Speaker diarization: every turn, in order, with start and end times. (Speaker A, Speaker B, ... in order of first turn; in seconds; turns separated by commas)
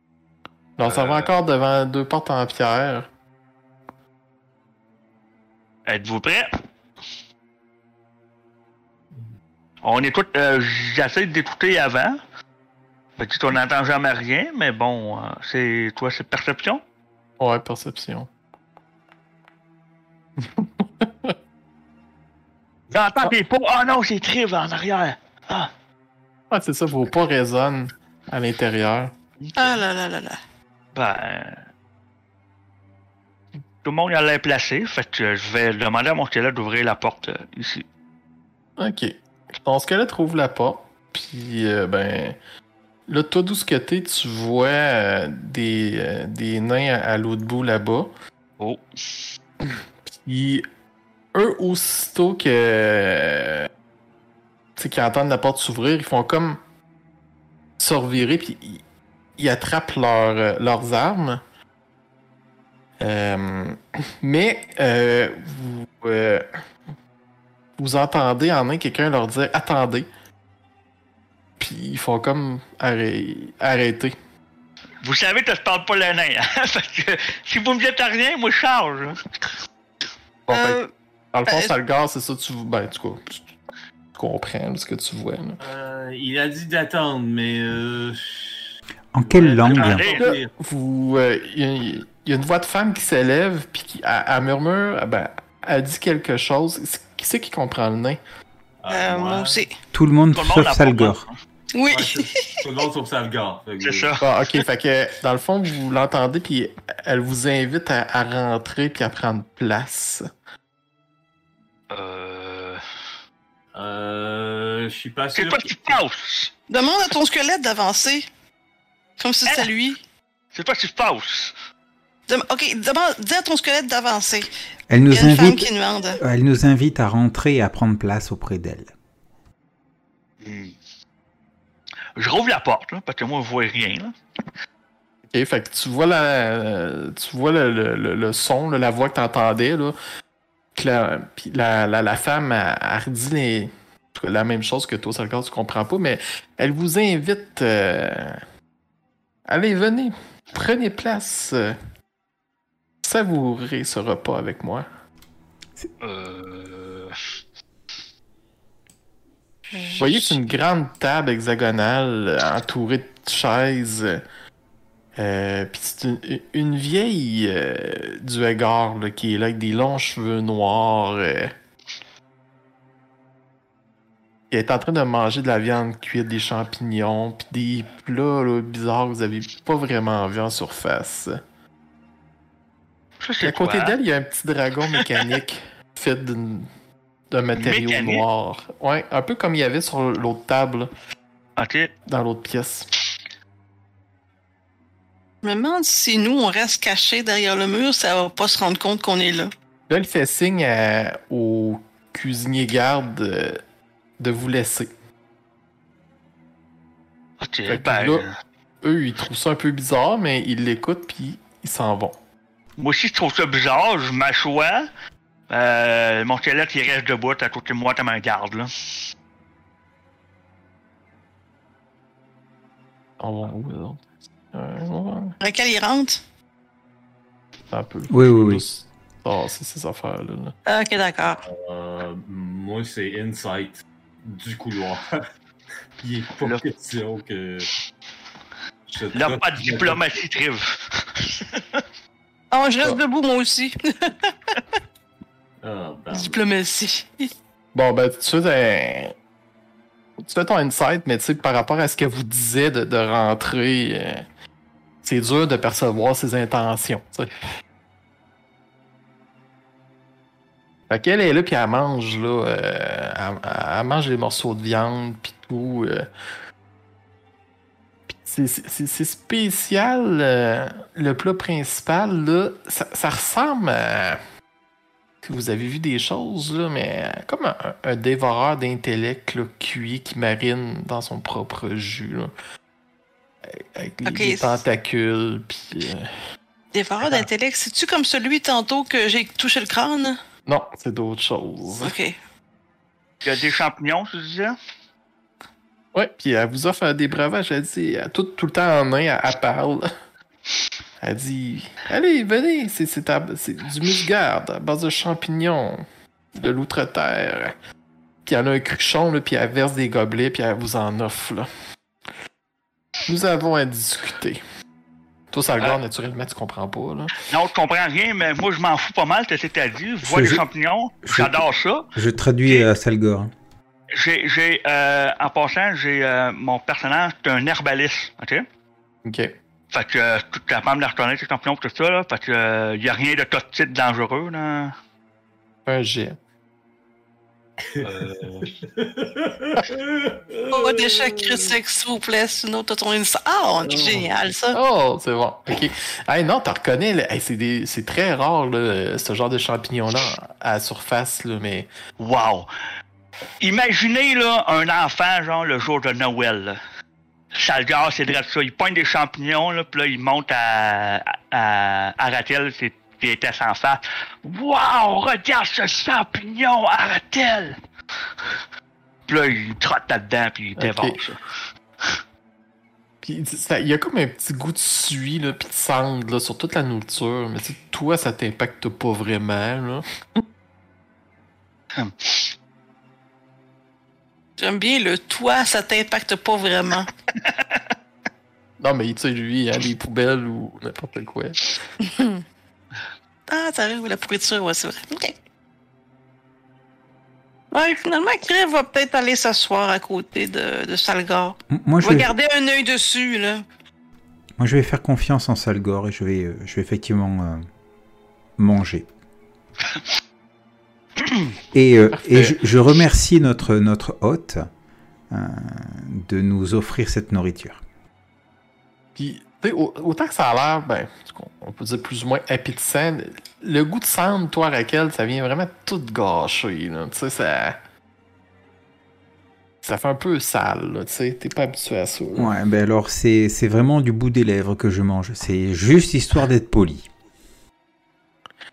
Speaker A: 0.8-3.1, Speaker B: 0.9-1.3, Speaker B: 5.9-6.5, Speaker B: 9.8-12.2, Speaker B: 13.2-16.8, Speaker A: 17.4-18.3, Speaker A: 20.4-21.3, Speaker B: 22.9-25.7, Speaker A: 26.5-29.1, Speaker B: 29.4-29.8, Speaker C: 29.6-30.4, Speaker B: 30.9-31.7, Speaker B: 33.8-37.9, Speaker A: 38.8-42.4, Speaker A: 43.1-48.1, Speaker A: 49.7-50.7, Speaker A: 51.4-53.7, Speaker A: 54.8-56.6, Speaker A: 57.8-58.8, Speaker A: 59.4-61.4, Speaker A: 63.0-66.5, Speaker A: 67.8-70.1, Speaker A: 71.6-74.2, Speaker B: 75.0-79.5, Speaker A: 80.5-80.8, Speaker C: 80.5-80.9, Speaker A: 81.3-83.5, Speaker C: 81.5-81.7, Speaker A: 84.1-85.6, Speaker D: 85.6-90.5, Speaker E: 89.1-90.1, Speaker B: 89.7-90.3, Speaker A: 90.2-98.2, Speaker D: 98.8-99.6, Speaker C: 98.9-99.7, Speaker E: 99.9-101.2, Speaker B: 100.3-101.3, Speaker C: 101.7-102.6, Speaker D: 101.9-104.1, Speaker B: 103.8-104.6, Speaker A: 104.2-110.2, Speaker B: 111.9-112.8, Speaker D: 113.7-116.0, Speaker B: 115.3-116.5, Speaker C: 116.7-118.3, Speaker C: 119.2-120.0, Speaker B: 120.5-121.5, Speaker C: 122.3-124.5, Speaker E: 124.9-128.9, Speaker C: 125.1-126.2, Speaker B: 130.4-130.8, Speaker B: 132.2-134.1, Speaker A: 135.3-139.9, Speaker A: 140.8-148.4, Speaker A: 149.5-151.8, Speaker A: 153.0-154.9, Speaker B: 156.0-157.2, Speaker C: 159.7-160.4, Speaker A: 160.0-164.2, Speaker A: 165.2-171.5, Speaker A: 174.5-181.4, Speaker B: 183.2-183.9, Speaker A: 183.4-186.7, Speaker A: 187.3-190.9, Speaker B: 187.6-188.2, Speaker B: 191.6-191.9, Speaker A: 192.1-192.9, Speaker C: 195.4-199.5, Speaker A: 199.9-203.6, Speaker A: 204.2-204.9, Speaker B: 207.4-208.3, Speaker A: 207.7-208.2, Speaker A: 208.8-212.2, Speaker B: 212.8-214.9, Speaker B: 215.5-218.7, Speaker A: 223.2-225.4, Speaker C: 225.4-226.2, Speaker A: 227.7-230.6, Speaker E: 228.1-228.6, Speaker C: 230.7-231.4, Speaker D: 231.4-235.2, Speaker D: 236.0-237.7, Speaker D: 238.9-240.0, Speaker B: 239.1-241.8, Speaker C: 242.5-244.6, Speaker D: 245.6-246.4, Speaker C: 246.1-247.3, Speaker A: 247.7-249.1, Speaker A: 250.2-254.2, Speaker A: 255.0-257.3, Speaker A: 260.9-266.1, Speaker A: 268.1-274.2, Speaker A: 275.2-282.3, Speaker A: 283.5-286.1, Speaker C: 284.1-284.6, Speaker C: 286.7-290.2, Speaker A: 290.5-291.9, Speaker C: 291.8-292.2, Speaker B: 293.2-294.6, Speaker A: 295.9-299.9, Speaker A: 301.0-305.8, Speaker A: 306.4-307.5, Speaker A: 308.2-311.5, Speaker A: 313.1-314.4, Speaker A: 315.3-317.2, Speaker B: 317.2-321.9, Speaker E: 320.0-320.4, Speaker E: 321.1-321.4, Speaker E: 321.9-323.3, Speaker B: 323.9-328.4, Speaker A: 329.1-329.4, Speaker B: 329.7-334.8, Speaker A: 335.7-336.2, Speaker D: 337.7-341.5, Speaker C: 340.5-344.6, Speaker A: 344.5-351.7, Speaker B: 352.0-352.5, Speaker B: 353.4-356.6, Speaker B: 357.3-367.6, Speaker B: 369.1-371.2, Speaker A: 370.6-371.0, Speaker A: 373.0-379.9, Speaker B: 381.8-382.3, Speaker C: 384.4-386.9, Speaker B: 387.2-387.6, Speaker A: 388.6-391.6, Speaker C: 391.8-392.2, Speaker C: 393.3-395.2, Speaker C: 397.5-403.4, Speaker E: 401.5-402.1, Speaker E: 404.4-407.4, Speaker E: 408.4-408.9, Speaker E: 411.5-414.5, Speaker A: 411.9-412.4, Speaker E: 415.1-417.6, Speaker A: 418.9-427.6, Speaker A: 429.6-432.3, Speaker E: 432.2-436.9